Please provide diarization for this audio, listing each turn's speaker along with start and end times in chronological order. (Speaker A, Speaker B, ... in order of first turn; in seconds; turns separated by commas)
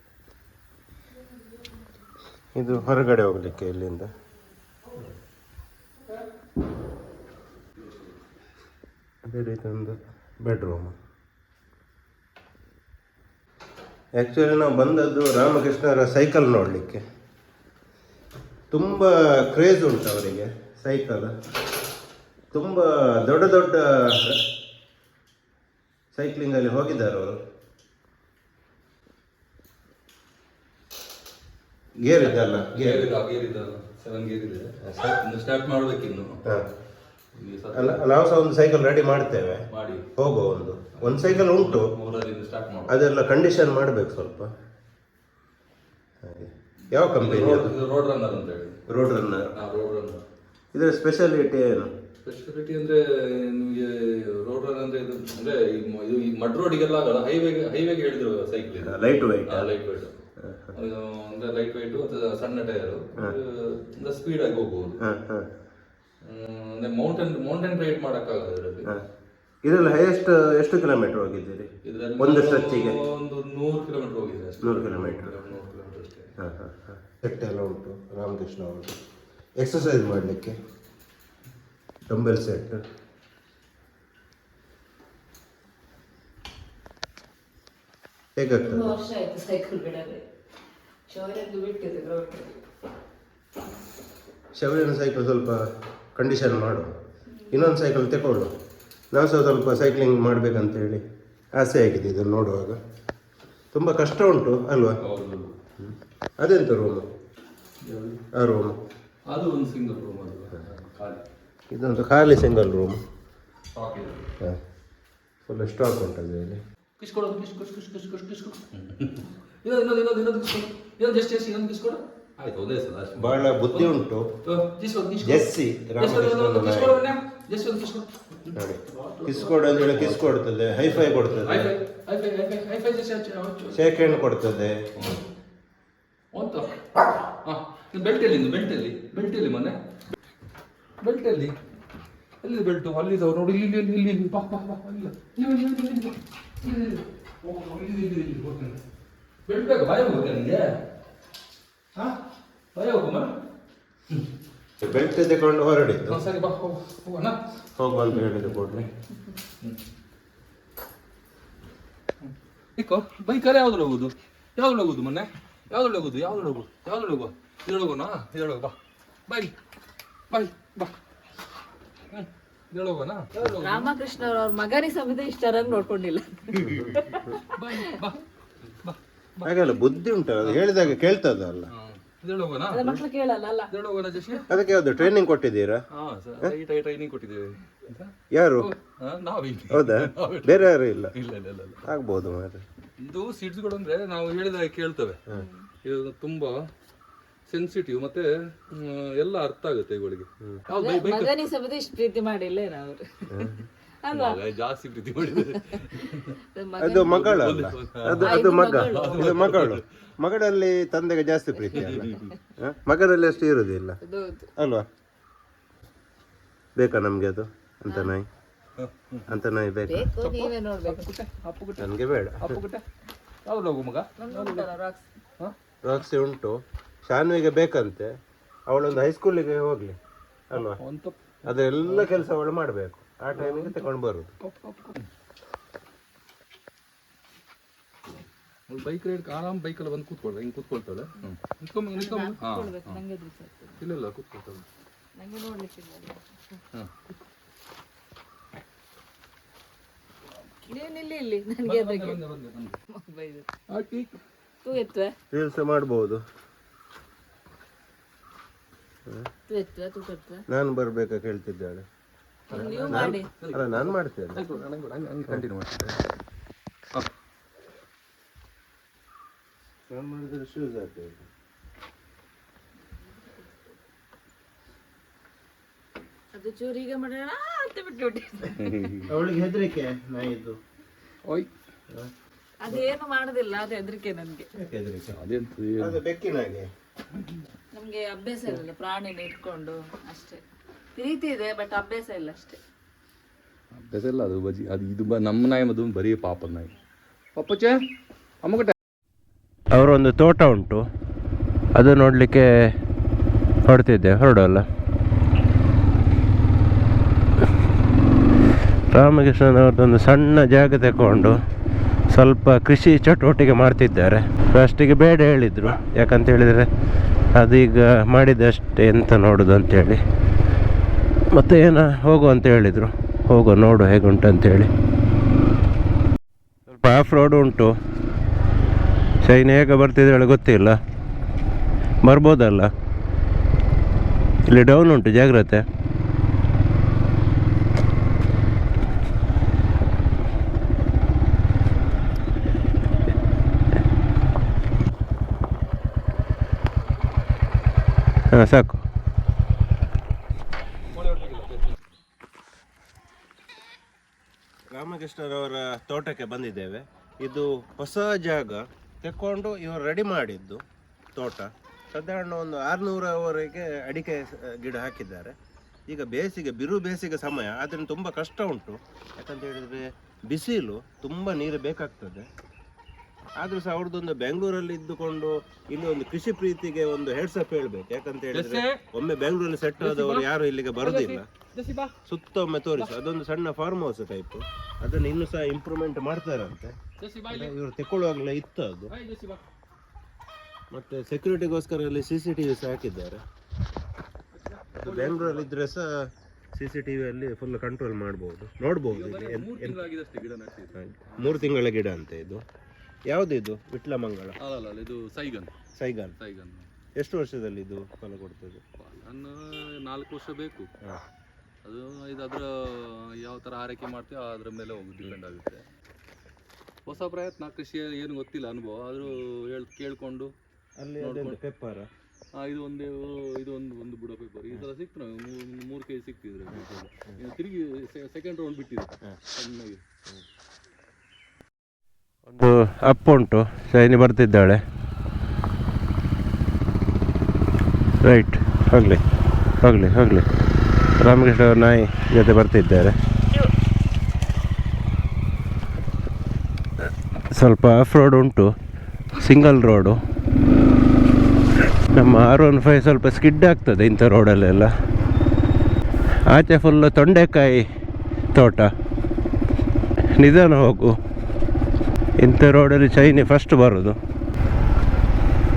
Speaker A: 2.5-4.1, Speaker A: 9.2-10.9, Speaker A: 14.2-17.0, Speaker A: 18.7-21.3, Speaker A: 22.5-24.4, Speaker A: 26.1-27.4, Speaker A: 32.0-33.1, Speaker B: 32.1-36.4, Speaker A: 34.8-35.2, Speaker B: 37.3-38.0, Speaker A: 37.7-39.6, Speaker B: 39.7-40.1, Speaker A: 40.2-41.9, Speaker B: 41.0-43.0, Speaker A: 42.9-44.5, Speaker A: 46.2-47.7, Speaker B: 47.0-48.8, Speaker A: 48.9-49.5, Speaker B: 49.5-50.2, Speaker A: 50.7-51.9, Speaker B: 52.2-60.1, Speaker A: 58.8-59.7, Speaker A: 60.4-60.7, Speaker B: 60.7-65.0, Speaker A: 65.0-65.5, Speaker B: 66.2-68.9, Speaker A: 69.6-73.0, Speaker B: 71.8-76.3, Speaker A: 74.6-75.3, Speaker A: 76.4-78.9, Speaker A: 79.6-80.6, Speaker A: 82.1-82.8, Speaker A: 88.3-88.9, Speaker C: 88.6-90.2, Speaker C: 91.1-92.5, Speaker A: 94.5-95.6, Speaker A: 96.1-96.9, Speaker A: 97.5-98.5, Speaker A: 99.1-101.0, Speaker A: 101.5-102.8, Speaker A: 103.7-105.0, Speaker B: 105.0-105.5, Speaker A: 105.8-107.1, Speaker B: 107.8-108.2, Speaker A: 108.3-108.8, Speaker B: 109.3-111.2, Speaker A: 111.7-113.0, Speaker B: 113.7-114.2, Speaker A: 115.5-116.6, Speaker B: 117.0-123.9, Speaker A: 123.2-124.3, Speaker B: 124.4-130.3, Speaker A: 125.2-127.0, Speaker A: 128.5-131.7, Speaker B: 130.8-134.2, Speaker A: 133.7-134.8, Speaker B: 135.0-135.2, Speaker B: 136.3-139.8, Speaker B: 141.0-141.6, Speaker B: 142.4-148.8, Speaker B: 149.5-150.8, Speaker B: 152.7-153.3, Speaker A: 154.8-156.2, Speaker B: 156.1-157.4, Speaker A: 157.8-158.9, Speaker B: 157.9-158.8, Speaker B: 162.2-168.8, Speaker B: 169.3-169.5, Speaker B: 170.3-170.9, Speaker B: 172.1-173.9, Speaker C: 173.5-177.8, Speaker B: 176.6-179.6, Speaker A: 179.4-181.7, Speaker B: 180.4-180.9, Speaker B: 181.7-183.0, Speaker C: 182.7-183.7, Speaker B: 183.7-184.5, Speaker A: 184.5-185.8, Speaker B: 185.9-191.8, Speaker A: 188.3-188.7, Speaker A: 189.7-191.1, Speaker A: 191.8-192.6, Speaker B: 193.0-195.2, Speaker C: 195.3-195.7, Speaker B: 195.8-196.7, Speaker B: 197.5-201.4, Speaker C: 200.7-204.4, Speaker A: 203.3-203.6, Speaker B: 204.1-206.4, Speaker C: 205.5-206.0, Speaker C: 206.5-207.3, Speaker A: 206.8-214.0, Speaker B: 207.0-209.8, Speaker C: 208.2-209.3, Speaker B: 211.7-212.3, Speaker C: 214.0-214.5, Speaker A: 214.6-214.8, Speaker A: 216.8-218.3, Speaker C: 217.9-218.1, Speaker B: 218.8-219.3, Speaker A: 219.3-220.1, Speaker C: 219.9-221.1, Speaker B: 220.2-222.8, Speaker A: 221.8-222.6, Speaker B: 223.4-224.7, Speaker C: 224.2-225.0, Speaker A: 225.8-228.1, Speaker A: 228.7-229.9, Speaker A: 230.5-230.8, Speaker B: 230.5-231.3, Speaker A: 231.4-234.3, Speaker B: 231.8-232.2, Speaker B: 233.3-233.8, Speaker B: 234.4-235.1, Speaker B: 238.7-243.0, Speaker C: 241.9-243.8, Speaker B: 243.8-244.6, Speaker C: 245.2-246.6, Speaker C: 250.6-252.2, Speaker B: 251.6-252.8, Speaker C: 252.9-253.5, Speaker B: 253.7-254.2, Speaker C: 254.6-255.2, Speaker A: 255.3-256.2, Speaker C: 259.5-260.4, Speaker A: 260.5-261.9, Speaker B: 262.5-265.9, Speaker C: 262.5-263.3, Speaker A: 262.5-264.4, Speaker A: 269.9-271.2, Speaker C: 276.3-279.0, Speaker B: 278.5-279.1, Speaker A: 279.1-280.6, Speaker C: 282.6-284.5, Speaker A: 284.6-285.1, Speaker B: 285.1-286.0, Speaker A: 285.8-286.7, Speaker C: 287.7-290.4, Speaker C: 290.9-292.6, Speaker B: 293.8-296.7, Speaker B: 297.4-297.8, Speaker B: 298.4-298.8, Speaker A: 299.7-300.8, Speaker A: 301.8-302.7, Speaker A: 303.7-304.6, Speaker A: 308.9-311.4, Speaker A: 312.1-316.7, Speaker A: 317.3-320.0, Speaker A: 321.3-324.7, Speaker A: 326.7-327.7, Speaker A: 329.2-330.8, Speaker A: 332.1-332.7, Speaker A: 334.5-335.6, Speaker A: 348.3-348.8, Speaker B: 350.9-351.8, Speaker A: 354.7-360.6, Speaker A: 361.1-365.4, Speaker A: 365.9-372.3, Speaker A: 373.4-381.2, Speaker B: 378.3-378.8, Speaker B: 379.8-381.9, Speaker A: 382.1-386.8, Speaker B: 387.0-387.5, Speaker A: 387.3-388.9, Speaker B: 388.9-389.4, Speaker A: 390.7-393.2, Speaker B: 394.5-395.5, Speaker A: 394.8-399.8, Speaker B: 398.9-401.5, Speaker A: 400.8-402.4, Speaker A: 403.1-404.4, Speaker B: 404.4-405.6, Speaker A: 405.8-406.1, Speaker B: 406.2-406.7, Speaker A: 407.0-408.6, Speaker B: 408.8-410.7, Speaker B: 411.6-415.6, Speaker B: 416.9-420.3, Speaker A: 420.8-421.9, Speaker B: 421.0-421.4, Speaker B: 422.4-429.8, Speaker A: 432.3-434.6, Speaker A: 438.0-439.0, Speaker A: 439.6-440.2, Speaker A: 441.0-442.9, Speaker A: 447.3-448.5, Speaker A: 449.1-450.0, Speaker A: 451.9-454.7, Speaker A: 456.3-457.6, Speaker A: 458.3-458.7, Speaker A: 460.2-461.0, Speaker A: 462.2-464.0